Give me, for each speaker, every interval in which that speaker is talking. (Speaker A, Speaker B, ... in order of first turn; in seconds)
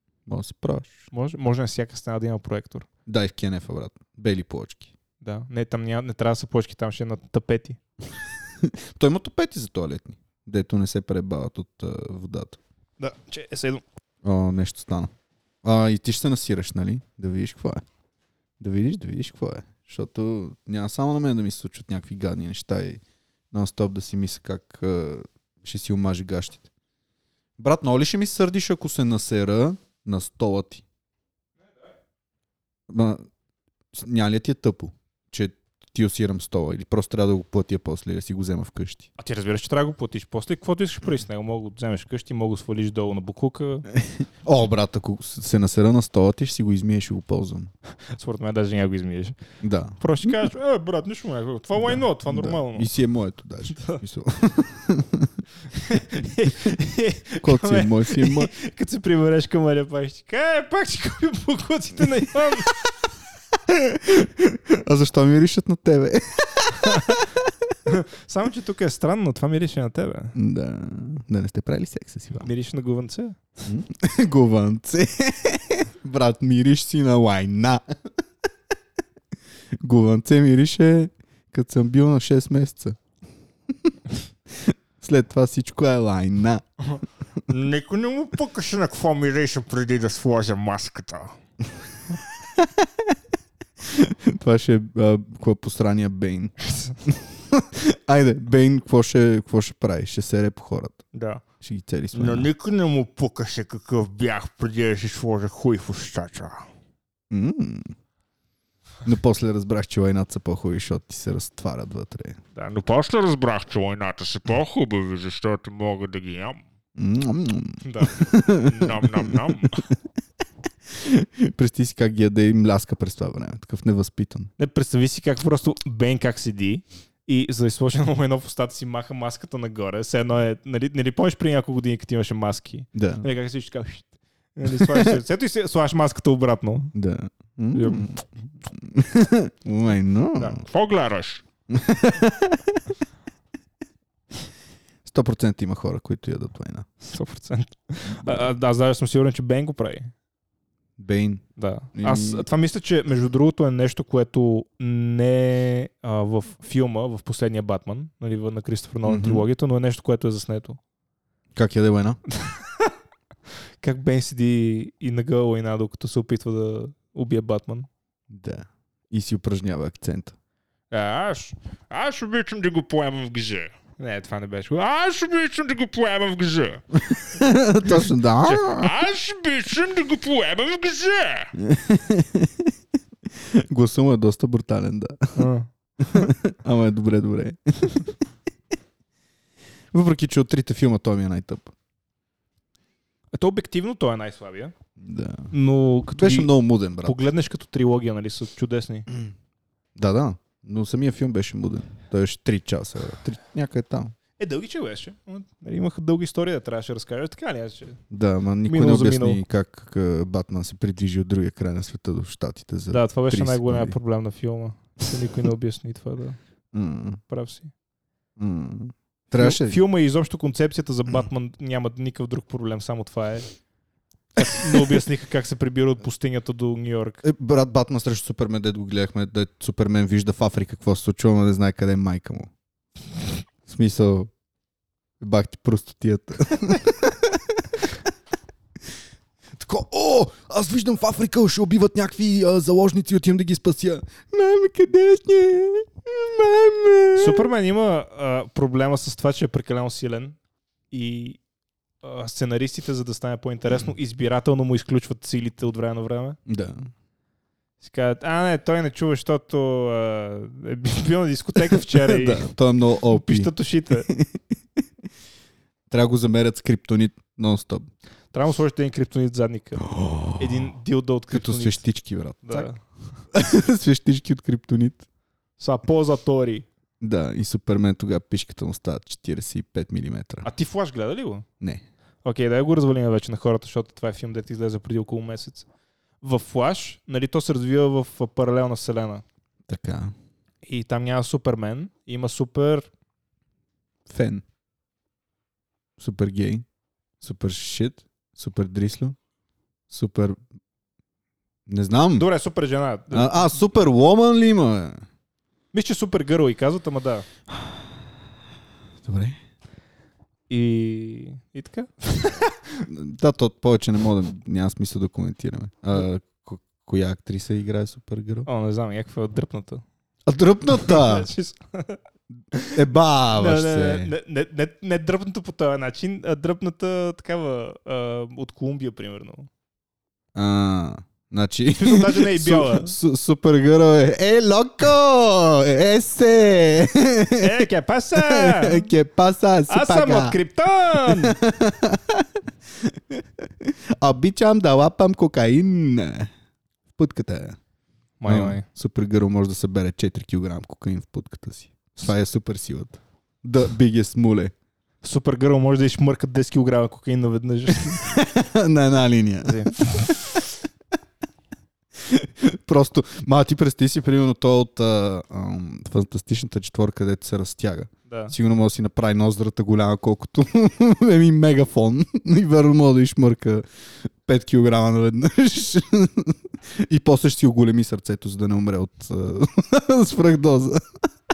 Speaker A: 0.2-1.1, 3.0-4.9, 8.6-12.6, 14.2-15.1, 15.6-17.8, 18.6-26.7, 27.6-30.8, 32.9-33.2, 33.9-39.1, 43.9-47.7, 49.6-50.5, 51.8-55.4, 57.4-58.5, 63.7-67.5, 70.3-72.5, 73.6-77.9, 79.8-83.0, 84.5-87.4, 92.5-93.1, 93.8-101.0, 101.6-102.5, 107.3-107.9, 109.0-112.4, 116.9-119.8, 120.9-124.5, 132.9-133.2, 134.8-135.1, 136.9-140.6, 141.7-142.8, 145.0-146.9, 151.0-152.5, 159.1-159.4, 161.5-162.2, 168.3-170.3, 177.1-178.9, 181.6-182.7, 183.3-188.1, 189.9-191.7, 195.0-195.5, 196.1-197.2, 199.9-204.1, 208.1-213.9, 216.7-217.2, 218.4-219.8, 224.4-224.9, 227.2-232.5, 233.7-234.3, 235.2-237.9, 239.5-247.5, 256.5-256.9, 261.9-264.4, 265.9-267.9, 269.8-270.7, 271.3-272.7, 273.3-275.0, 277.0-280.5, 289.7-290.1, 294.1-294.4, 296.0-296.6, 297.2-299.1, 299.9-300.4, 301.7-302.2, 303.1-305.0, 309.0-309.4, 312.9-318.5, 320.3-321.3, 322.7-324.1, 330.3-340.4, 341.0-346.3, 346.9-347.6, 348.2-354.5, 357.9-360.4, 361.9-380.8
Speaker B: 1.1-2.9, 5.2-7.8, 13.0-13.8, 39.2-43.9, 48.1-49.4, 50.0-52.9, 53.7-54.0, 55.7-62.7, 66.9-67.2, 67.9-70.3, 72.4-73.4, 101.1-101.4, 117.8-119.8, 124.6-136.9, 137.7-138.2, 140.4-141.3, 147.1-150.1, 151.6-160.8, 162.4-162.9, 163.8-167.9, 170.9-171.5, 174.0-175.1, 185.3-185.7, 193.3-194.7, 195.5-196.5, 197.0-199.1, 204.4-208.0, 208.7-209.4, 212.9-216.4, 217.3-217.7, 219.3-223.5, 224.3-227.2, 247.1-250.3, 250.9-251.4, 252.0-256.4, 257.8-262.5, 263.1-264.1, 268.3-271.8, 272.4-272.8, 275.6-276.7, 280.4-281.4, 282.2-285.7, 286.2-289.2, 290.6-292.9, 302.1-303.6, 305.7-307.2, 310.5-312.9, 318.4-319.8, 320.7-322.0, 322.5-322.8, 323.3-329.5, 331.8-332.9, 337.4-338.9, 339.7-341.4, 348.2-348.6, 355.0-358.1, 359.4-359.8, 368.1-368.3
Speaker C: 87.5-91.3, 102.1-106.6, 112.6-116.6, 140.7-141.4, 171.9-173.7, 174.9-176.8, 178.7-181.5